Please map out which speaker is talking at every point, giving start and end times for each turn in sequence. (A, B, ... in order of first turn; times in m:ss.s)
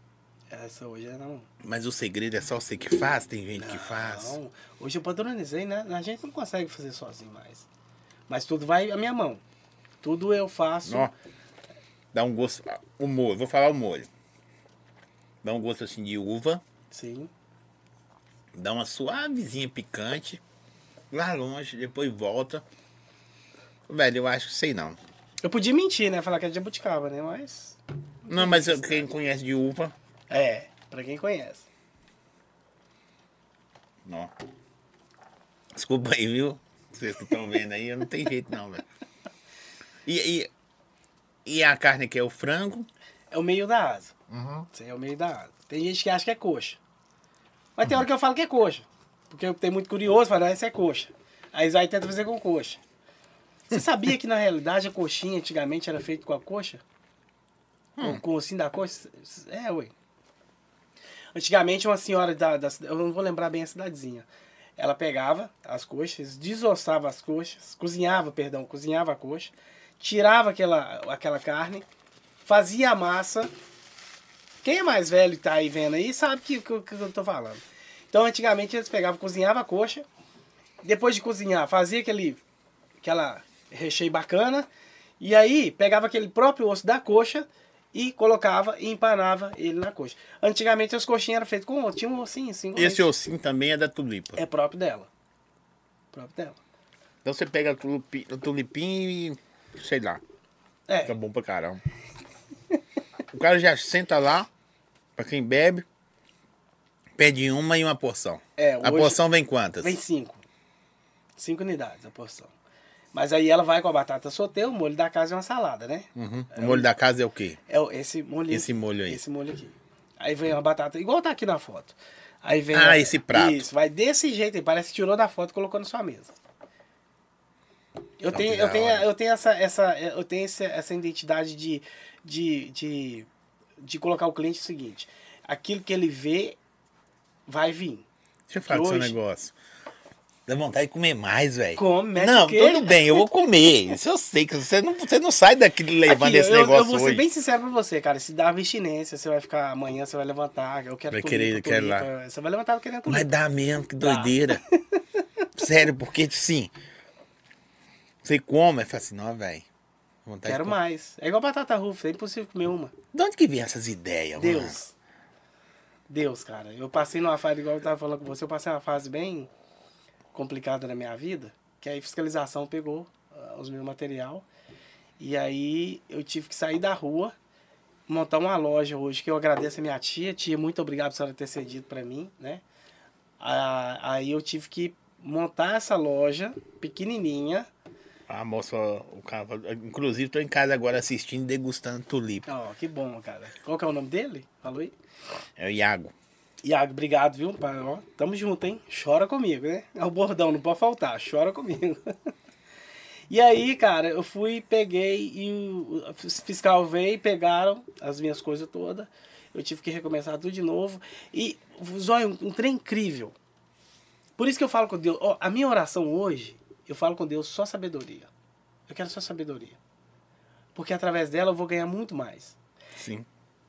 0:00.5-0:01.5 A
0:01.6-0:04.4 B
0:03.6-0:07.7 A
0:08.3-0:09.4 A
0:10.0-0:11.1 A
0:10.8-0:11.1 B
0:12.1-0:14.1 B
0:15.4-0:16.6 B
0:16.9-0:17.3 A
0:18.5-0:20.4 B
0:21.1-0:22.6 B
0:23.9-0:25.0 B
0:25.4-0:29.1 A
0:28.3-0:29.9 B
0:30.3-0:31.7 A
0:34.0-0:34.3 B
0:35.7-0:38.8 B
0:40.0-0:40.5 B
0:41.4-0:42.9 B
0:43.3-0:44.1 A
0:44.3-0:44.7 B
0:44.7-0:46.8 A
0:47.8-0:52.8 A
0:53.7-0:56.8 A
0:58.0-0:58.2 B
0:58.0-0:59.9 A
1:01.3-1:04.2 A
1:04.8-1:11.8 A
1:12.4-1:13.5 A
1:14.6-1:20.0 A
1:20.8-1:22.4 A
1:23.0-1:24.7 A
1:25.2-1:33.1 A
1:32.8-1:34.4 B
1:34.4-1:35.1 A
1:36.1-1:36.6 A
1:37.2-1:40.2 B
1:40.9-1:41.1 A
1:41.0-1:41.8 B
1:43.3-1:44.5 B
1:45.2-1:45.8 B
1:47.2-1:50.0 B
1:48.6-1:49.2 A
1:49.8-1:50.4 A
1:51.4-1:52.5 A
1:53.1-1:56.9 A
1:56.1-1:57.6 B
1:57.7-2:06.3 A
1:58.5-1:59.2 B
2:02.7-2:03.6 B
2:08.2-2:13.3 A
2:08.3-2:09.1 B
2:13.8-2:16.6 A
2:17.5-2:18.1 A
2:18.5-2:19.5 B
2:18.6-2:19.2 A
2:20.5-2:27.2 B
2:21.8-2:23.2 A
2:26.0-2:33.3 A
2:31.1-2:32.1 B
2:33.1-2:34.6 B
2:34.0-2:35.0 A
2:35.6-2:36.7 B
2:38.2-2:39.6 B
2:40.2-2:40.8 B
2:40.4-2:42.9 A
2:43.1-2:44.8 B
2:44.4-2:44.9 A
2:46.1-2:49.5 A
2:50.3-2:54.4 A
2:55.2-2:57.3 A
2:58.1-3:02.6 A
3:03.4-3:07.7 A
3:08.3-3:12.5 B
3:12.4-3:14.9 A
3:15.6-3:16.1 B
3:16.6-3:22.1 A
3:23.3-3:33.4 A
3:34.4-3:38.3 A
3:38.9-3:39.8 A
3:40.7-3:42.6 A
3:43.0-3:43.2 B